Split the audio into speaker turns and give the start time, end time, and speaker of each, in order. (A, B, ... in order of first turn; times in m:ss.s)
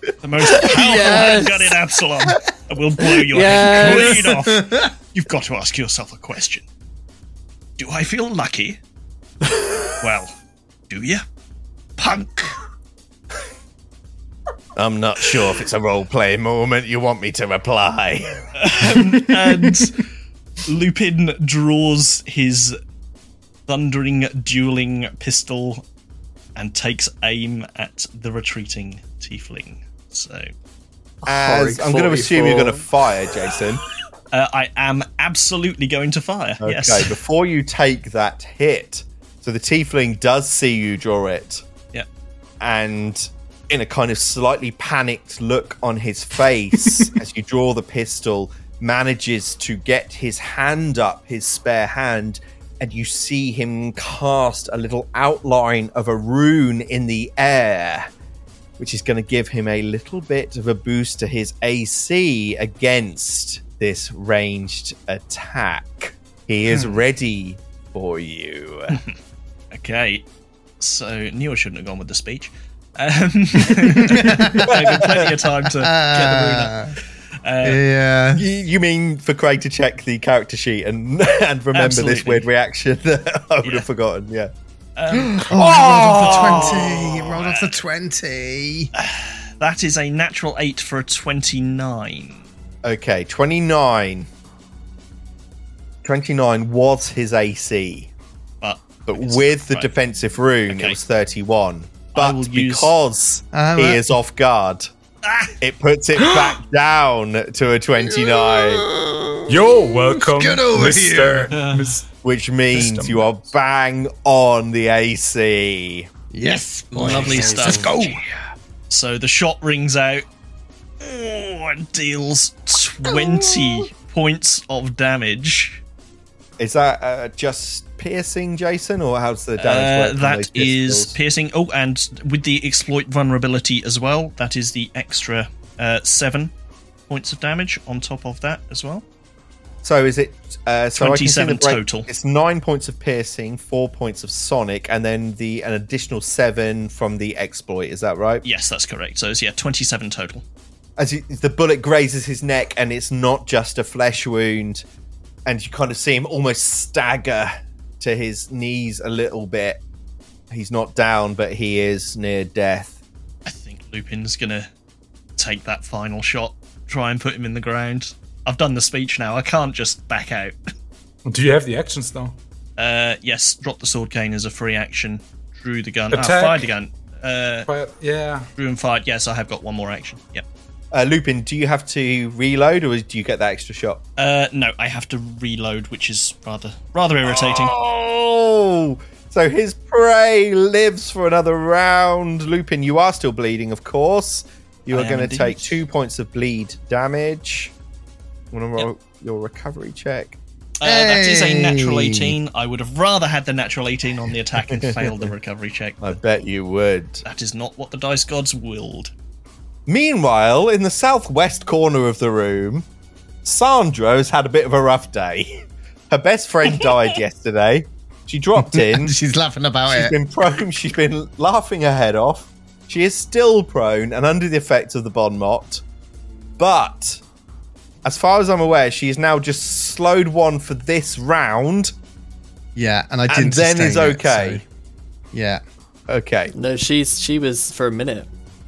0:00.2-0:06.6 A
0:00.6-0:01.7 B
0:00.7-0:01.6 C
0:03.3-0:04.2 C
0:03.6-0:04.9 B
0:07.8-0:08.8 A
0:09.9-0:10.3 A
0:10.9-0:11.2 A
0:12.0-0:12.6 A
0:14.8-0:18.5 D
0:18.6-0:20.0 A
0:20.6-0:22.8 A
0:23.7-0:25.8 A
0:26.6-0:30.5 A
0:31.2-0:32.9 C
0:31.3-0:33.8 D
0:34.3-0:37.2 A
0:36.6-0:41.6 D
0:42.6-0:58.1 D
0:58.8-1:09.0 D
1:09.7-1:10.2 A
1:10.8-1:16.9 A
1:13.8-1:15.0 B
1:14.6-1:15.3 D
1:15.8-1:17.0 B
1:17.4-1:17.8 A
1:17.6-1:18.4 B
1:18.3-1:24.5 D
1:21.7-1:22.5 A
1:25.0-1:27.8 A
1:25.3-1:28.9 B
1:25.5-1:27.0 D
1:29.0-1:32.4 A
1:32.8-1:34.3 D
1:36.0-1:38.1 D
1:38.6-1:39.9 A
1:39.1-1:44.9 D
1:40.7-1:41.0 A
1:42.1-1:42.9 A
1:43.5-1:44.2 B
1:45.2-1:45.5 A
1:45.6-1:48.8 D
1:48.0-1:51.6 B
1:49.5-1:52.1 E
1:51.5-1:51.9 A
1:52.2-1:56.1 D
1:52.7-1:53.3 E
1:56.3-1:58.2 B
1:57.0-1:58.1 A
1:57.0-1:57.7 D
1:58.9-2:00.2 A
2:01.0-2:05.8 A
2:03.1-2:03.8 B
2:06.6-2:11.2 D
2:09.6-2:16.5 A
2:17.1-2:19.0 A
2:19.8-2:28.4 D
2:21.0-2:22.1 A
2:28.4-2:30.4 A
2:31.0-2:34.8 D
2:35.5-2:39.8 D
2:40.5-2:43.0 D
2:43.5-2:44.7 A
2:45.4-2:50.6 A
2:51.2-2:52.4 E
2:52.8-2:57.7 A
2:56.1-2:56.7 E
2:57.7-2:58.5 E
2:58.6-3:00.4 A
3:00.9-3:04.0 D
3:04.2-3:07.8 A
3:07.2-3:17.7 D
3:14.9-3:15.8 A
3:18.5-3:20.4 D
3:20.8-3:26.2 A
3:20.8-3:22.4 B
3:24.7-3:25.2 D
3:26.0-3:27.2 D
3:27.2-3:29.1 A
3:29.9-3:32.8 D
3:33.4-3:39.1 D
3:38.6-3:40.2 B
3:39.9-3:45.8 D
3:46.6-3:47.2 D
3:48.0-3:51.9 D
3:52.8-3:54.6 B
3:53.3-3:54.6 D
3:55.3-3:55.6 B
3:56.1-3:56.5 D
3:56.5-3:58.3 C